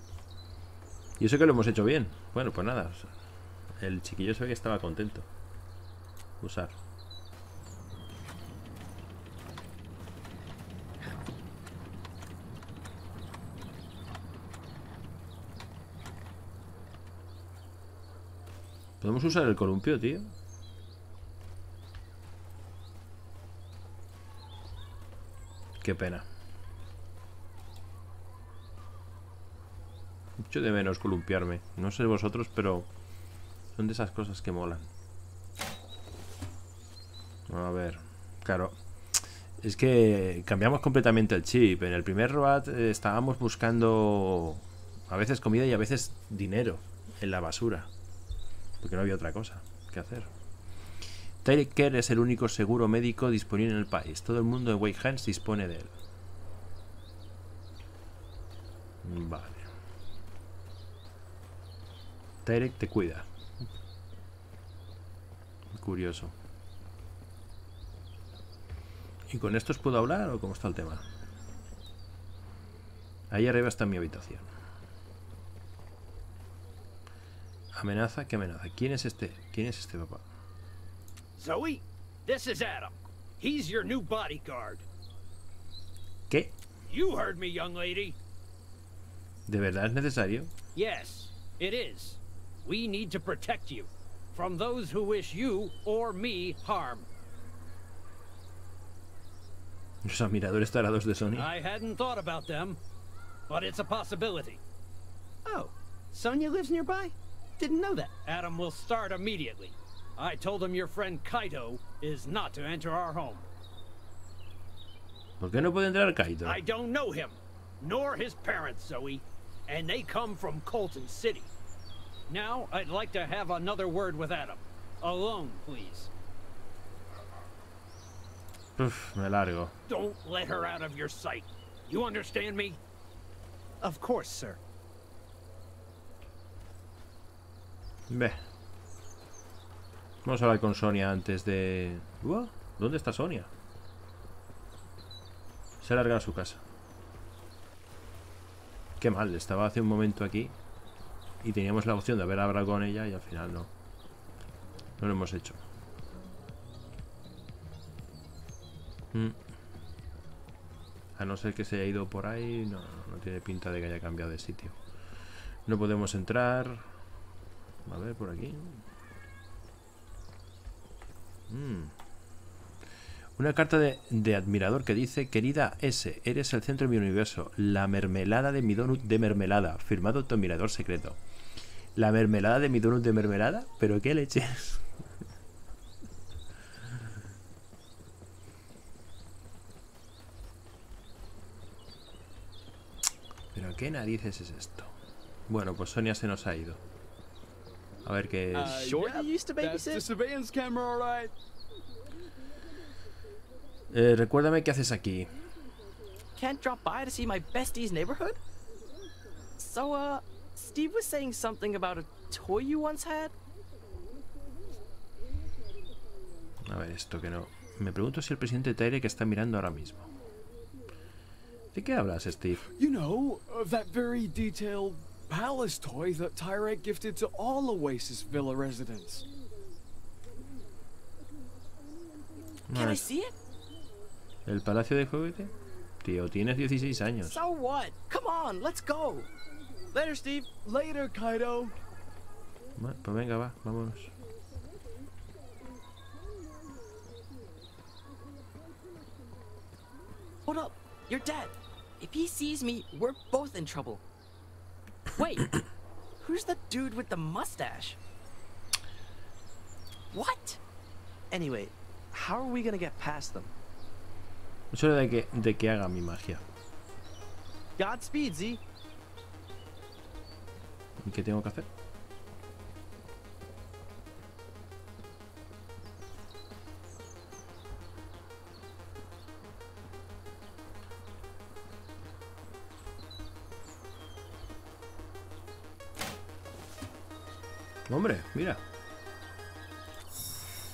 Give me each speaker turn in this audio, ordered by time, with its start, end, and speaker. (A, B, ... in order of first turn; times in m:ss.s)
0:01.2-0:03.1 A
0:03.8-0:05.3 A
0:06.4-0:06.8 A
0:19.0-0:20.3 A
0:25.8-0:26.2 A
0:30.4-0:32.9 A
0:33.8-0:34.9 A
0:37.5-0:47.9 A
0:48.8-0:50.3 A
0:51.4-0:55.9 A
0:59.0-0:59.7 A
1:02.4-1:03.3 A
1:05.7-1:06.3 A
1:09.3-1:11.0 A
1:13.3-1:14.5 A
1:17.7-1:20.2 A
1:21.4-1:24.8 B
1:26.3-1:26.6 A
1:26.9-1:28.2 B
1:29.5-1:30.5 A
1:30.7-1:37.1 B
1:40.0-1:41.5 A
1:41.3-1:42.8 B
1:43.5-1:44.6 B
1:45.4-1:48.1 C
1:48.1-1:53.5 B
1:55.4-1:56.6 A
1:56.4-2:01.5 B
2:02.3-2:06.1 B
2:08.8-2:09.7 A
2:09.9-2:12.8 B
2:13.8-2:14.6 C
2:18.1-2:18.4 A
2:20.2-2:23.5 A
2:25.8-2:26.6 A
2:29.0-2:30.5 A
2:31.4-2:33.7 A
2:35.0-2:35.6 A
2:39.1-2:39.4 A
2:41.2-2:44.7 A
2:45.7-2:46.9 A
2:47.8-2:48.8 A
2:51.5-2:51.9 A
2:53.4-3:01.2 A
3:02.0-3:04.8 A
3:13.5-3:14.9 A
3:15.5-3:16.8 A
3:18.0-3:18.8 A
3:18.5-3:21.3 D
3:18.6-3:20.0 E
3:23.9-3:25.3 A
3:26.4-3:28.4 E
3:29.6-3:33.3 E
3:36.6-3:40.1 A
3:41.7-3:42.6 A
3:42.8-3:49.2 D
3:52.7-3:53.0 A
3:52.7-3:53.3 E
3:54.4-3:57.4 A
3:57.3-3:59.3 E
3:59.9-4:00.5 E
4:00.6-4:01.8 D
4:02.8-4:04.1 A
4:10.4-4:14.0 E
4:15.2-4:15.5 E
4:16.2-4:18.0 E
4:20.1-4:20.6 E
4:21.3-4:23.5 E
4:24.7-4:26.4 A
4:27.8-4:28.6 E
4:31.0-4:31.7 A
4:47.9-4:48.6 A